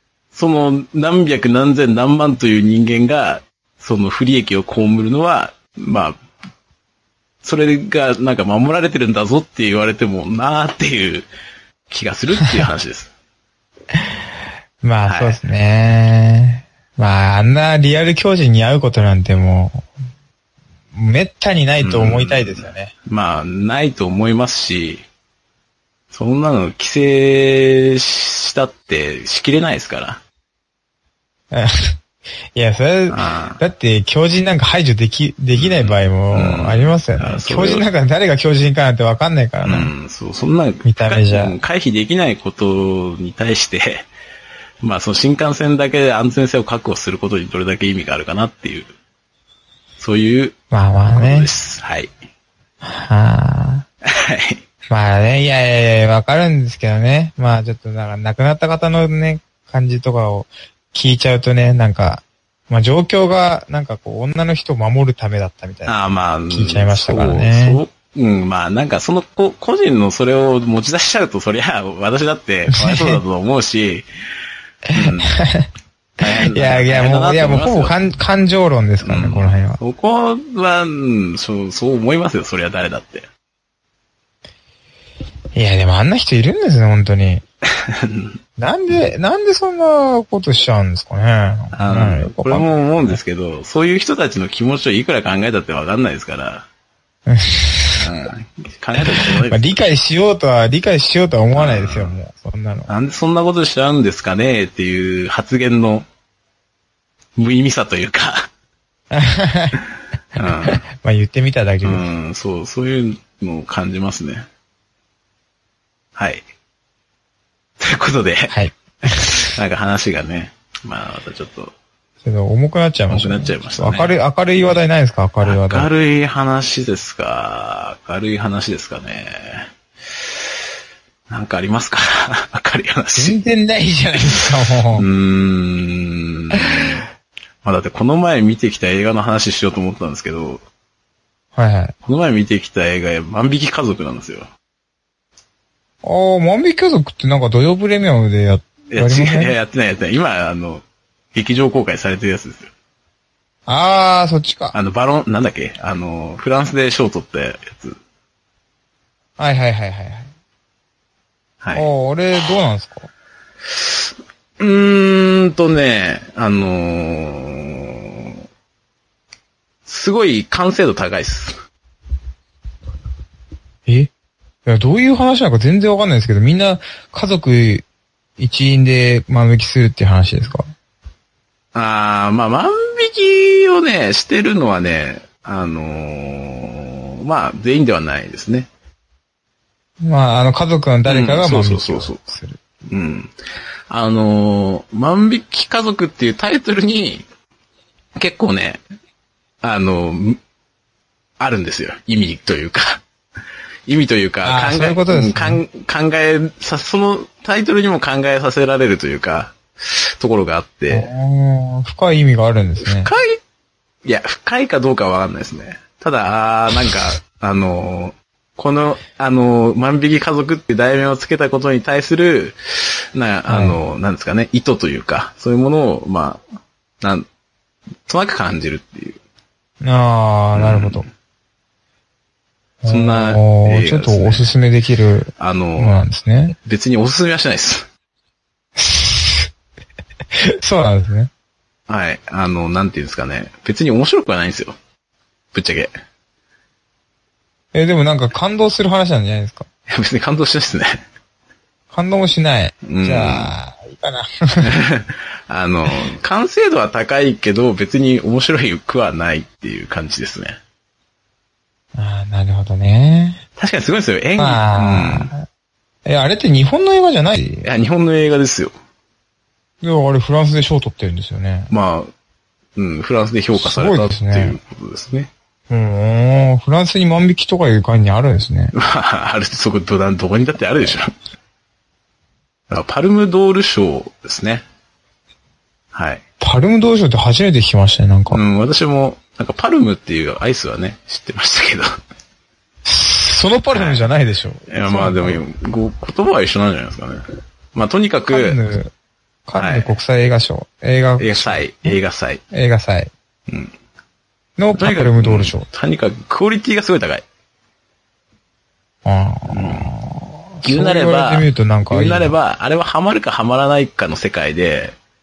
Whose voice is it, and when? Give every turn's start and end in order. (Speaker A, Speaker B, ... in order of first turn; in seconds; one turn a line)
Speaker A: 0.3-6.2
Speaker A: 7.4-11.3
Speaker A: 11.9-13.1
Speaker B: 14.8-19.9
Speaker A: 15.1-15.4
Speaker B: 20.9-22.9
Speaker A: 21.8-25.0
Speaker A: 26.1-30.2
Speaker B: 31.5-32.0
Speaker B: 32.5-39.9
Speaker A: 33.1-33.6
Speaker A: 35.5-37.9
Speaker A: 39.6-44.1
Speaker B: 40.8-41.5
Speaker A: 44.8-48.9
Speaker A: 50.0-52.1
Speaker B: 50.7-51.5
Speaker B: 52.8-53.9
Speaker A: 54.1-54.6
Speaker B: 54.9-66.0
Speaker A: 65.8-74.1
Speaker B: 66.5-67.8
Speaker B: 72.7-73.2
Speaker B: 74.9-75.7
Speaker A: 74.9-75.3
Speaker A: 76.2-77.9
Speaker B: 76.3-79.8
Speaker A: 79.0-83.3
Speaker B: 85.5-87.4
Speaker A: 87.8-88.4
Speaker B: 88.6-93.2
Speaker A: 91.7-96.7
Speaker B: 97.3-98.1
Speaker A: 98.0-99.8
Speaker B: 99.0-102.9
Speaker A: 101.5-102.2
Speaker A: 102.9-106.1
Speaker A: 107.4-108.5
Speaker B: 109.1-109.8
Speaker A: 110.3-110.8
Speaker B: 110.6-112.1
Speaker A: 111.8-114.5
Speaker A: 116.2-116.5
Speaker A: 117.8-118.5
Speaker B: 118.5-119.5
Speaker A: 119.1-121.7
Speaker B: 122.2-125.9
Speaker A: 123.1-124.1
Speaker A: 125.4-129.7
Speaker A: 131.3-133.4
Speaker B: 133.1-135.1
Speaker A: 134.9-137.0
Speaker A: 137.6-140.6
Speaker B: 141.5-141.9
Speaker A: 142.0-144.5
Speaker B: 146.0-149.5
Speaker A: 148.9-152.7
Speaker B: 153.7-154.7
Speaker A: 154.7-158.0
Speaker B: 159.4-160.3
Speaker A: 161.6-161.9
Speaker B: 161.7-163.1
Speaker A: 163.7-168.4
Speaker A: 169.8-171.6
Speaker B: 174.7-177.8
Speaker B: 178.4-180.7
Speaker A: 181.7-188.7
Speaker B: 190.0-192.6
Speaker A: 191.1-192.2
Speaker A: 192.9-193.4
Speaker A: 193.9-197.2
Speaker A: 198.2-198.8
Speaker A: 199.6-200.4
Speaker A: 201.4-203.0
Speaker A: 203.9-211.1
Speaker B: 204.4-205.6
Speaker B: 210.9-213.1
Speaker A: 212.8-213.4
Speaker A: 214.0-226.4
Speaker B: 223.5-223.8
Speaker A: 227.0-227.3
Speaker A: 228.1-229.2
Speaker B: 229.8-231.1
Speaker A: 230.6-231.1
Speaker B: 232.8-236.6
Speaker A: 232.9-234.5
Speaker A: 235.4-236.0
Speaker A: 236.5-237.9
Speaker B: 238.8-239.5
Speaker B: 240.3-241.3
Speaker A: 241.9-244.8
Speaker A: 245.5-245.9
Speaker B: 247.7-249.7
Speaker A: 249.9-251.0
Speaker B: 251.9-254.7
Speaker A: 252.8-253.5
Speaker A: 254.6-260.6
Speaker B: 261.9-263.4
Speaker A: 263.6-265.3
Speaker B: 264.4-265.4
Speaker B: 266.0-267.7
Speaker A: 267.6-268.7
Speaker B: 269.8-271.7
Speaker A: 271.7-272.1
Speaker A: 272.8-275.3
Speaker B: 273.6-274.6
Speaker B: 275.7-278.7
Speaker A: 278.7-281.1
Speaker A: 282.7-284.6
Speaker A: 285.9-286.2
Speaker B: 286.4-288.4
Speaker A: 288.3-291.9
Speaker B: 292.8-295.4
Speaker A: 293.7-294.0
Speaker A: 294.7-298.6
Speaker B: 298.3-298.9
Speaker B: 299.5-302.0
Speaker A: 299.6-300.0
Speaker A: 301.2-302.4
Speaker B: 302.5-303.1
Speaker A: 303.5-303.7
Speaker B: 304.6-305.7
Speaker A: 304.8-307.2
Speaker B: 309.0-312.3
Speaker A: 309.5-309.9
Speaker A: 310.6-314.9